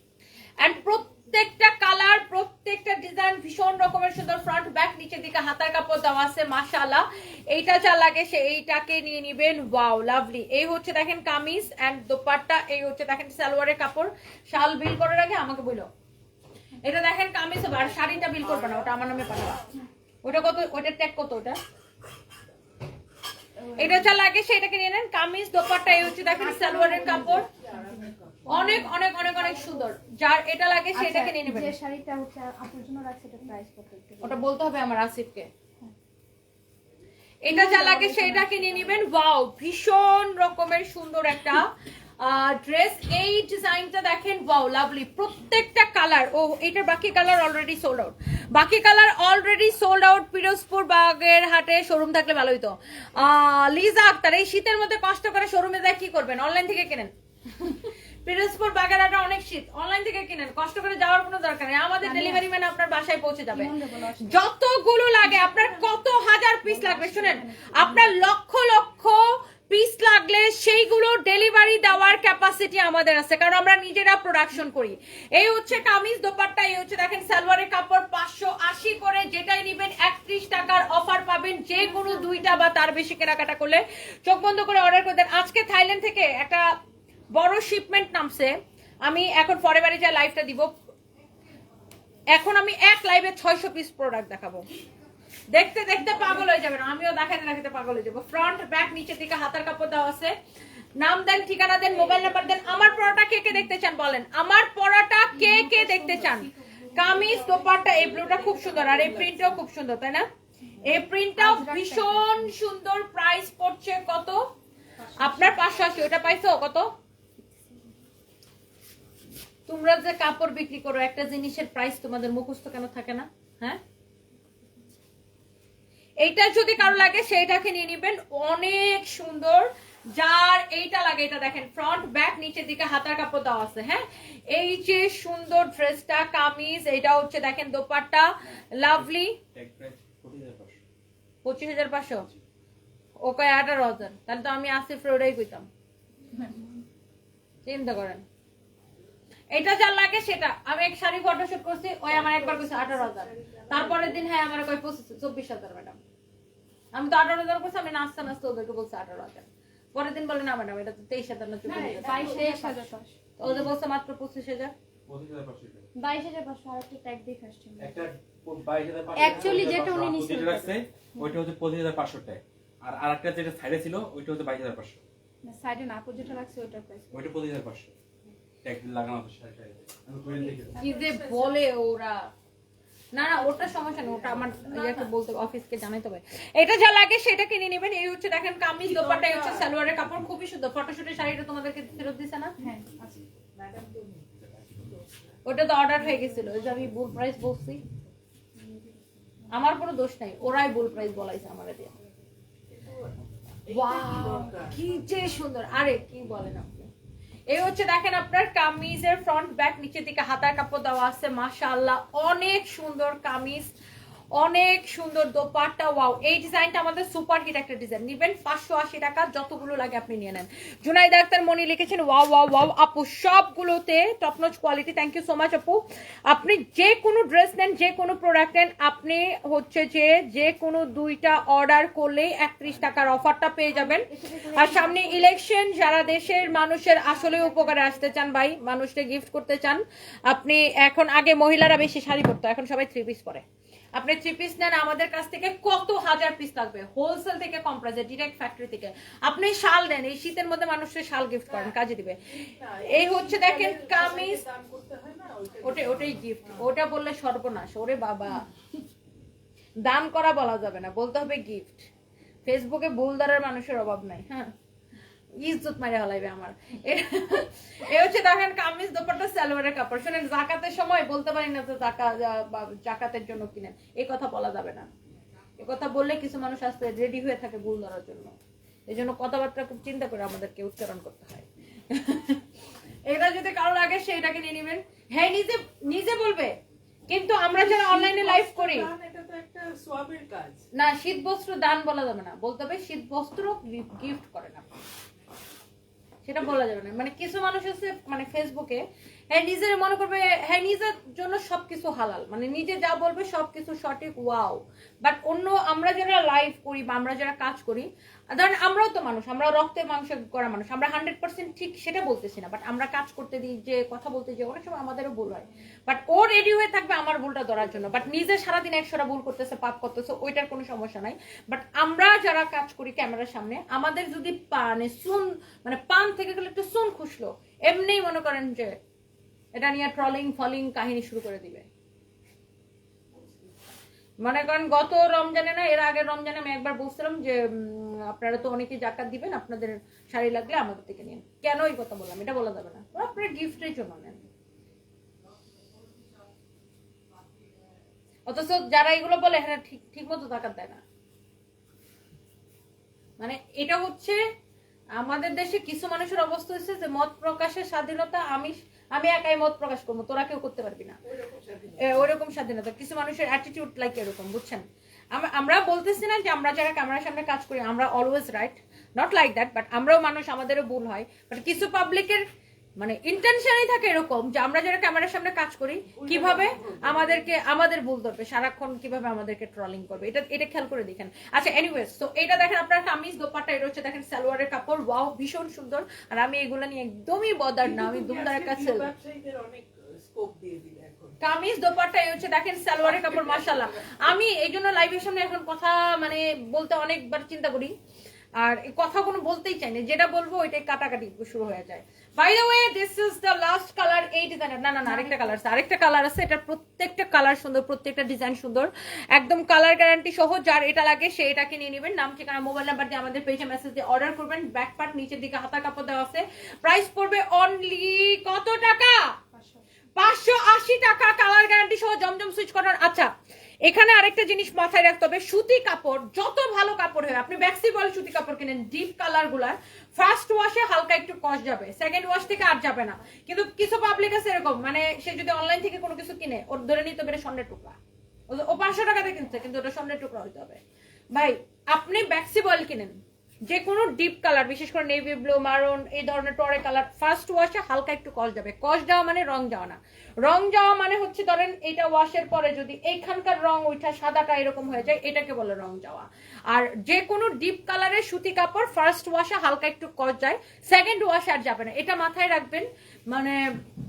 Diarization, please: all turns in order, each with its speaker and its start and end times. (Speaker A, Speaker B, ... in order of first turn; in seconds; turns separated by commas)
Speaker A: 0.6-15.9, Speaker A: 16.8-19.6, Speaker A: 20.2-21.6, Speaker B: 23.6-24.1, Speaker A: 23.8-27.5, Speaker C: 26.0-28.5, Speaker B: 26.5-29.7, Speaker A: 28.5-31.8, Speaker B: 30.9-34.5, Speaker A: 34.2-35.5, Speaker A: 37.4-41.7, Speaker B: 37.5-38.8, Speaker A: 42.2-86.7, Speaker B: 62.0-62.4, Speaker B: 63.5-64.4, Speaker B: 65.2-65.8, Speaker B: 66.6-68.3, Speaker A: 87.3-90.7, Speaker A: 92.3-94.6, Speaker A: 95.5-100.3, Speaker A: 101.0-110.3, Speaker B: 105.3-106.9, Speaker C: 107.0-109.6, Speaker B: 110.8-112.5, Speaker A: 110.8-114.5, Speaker B: 115.2-115.7, Speaker A: 115.2-116.9, Speaker A: 119.7-123.8, Speaker A: 126.2-139.4, Speaker D: 139.0-140.8, Speaker A: 141.4-142.3, Speaker A: 143.2-145.7, Speaker A: 147.7-148.2, Speaker A: 149.5-156.0, Speaker C: 152.1-154.2, Speaker A: 156.9-162.8, Speaker B: 161.6-163.2, Speaker C: 161.8-162.4, Speaker A: 163.4-164.7, Speaker D: 163.4-163.7, Speaker D: 165.1-165.9, Speaker B: 165.9-168.0, Speaker D: 167.8-175.0, Speaker B: 169.1-171.4, Speaker A: 169.2-169.8, Speaker B: 175.4-177.3, Speaker D: 177.1-177.9, Speaker D: 178.6-180.8, Speaker C: 180.6-181.6, Speaker A: 180.8-182.3, Speaker A: 183.1-192.5, Speaker C: 183.4-185.1, Speaker C: 188.8-189.7, Speaker B: 192.6-193.2, Speaker C: 193.5-195.3, Speaker D: 194.4-194.8, Speaker A: 195.5-197.8, Speaker B: 198.6-199.0, Speaker A: 199.5-201.9, Speaker C: 202.7-203.1, Speaker C: 203.7-204.8, Speaker A: 203.7-206.9, Speaker A: 207.5-213.7, Speaker A: 214.3-243.4, Speaker B: 233.7-235.4, Speaker B: 236.9-237.9, Speaker A: 244.0-252.2, Speaker C: 251.5-251.8, Speaker C: 252.3-256.6, Speaker A: 252.9-254.4, Speaker A: 255.6-258.4, Speaker A: 259.9-261.9, Speaker A: 262.5-264.5, Speaker A: 265.4-274.9, Speaker A: 275.6-278.4, Speaker A: 278.9-282.4, Speaker A: 283.1-286.5, Speaker A: 287.1-288.9, Speaker C: 287.5-290.6, Speaker A: 290.8-294.7, Speaker A: 296.2-328.8, Speaker A: 329.5-331.6, Speaker A: 334.2-344.2, Speaker A: 348.3-350.8, Speaker A: 353.2-354.2, Speaker A: 355.0-361.0, Speaker C: 361.0-362.1, Speaker A: 361.8-364.6, Speaker A: 365.1-372.2, Speaker A: 372.8-388.9, Speaker C: 375.9-377.4, Speaker C: 387.6-391.2, Speaker A: 391.2-397.7, Speaker C: 393.1-393.5, Speaker A: 398.4-419.1, Speaker B: 404.8-405.4, Speaker B: 419.3-419.6, Speaker A: 420.0-423.1, Speaker A: 423.6-437.8, Speaker A: 438.3-440.6, Speaker A: 441.1-463.4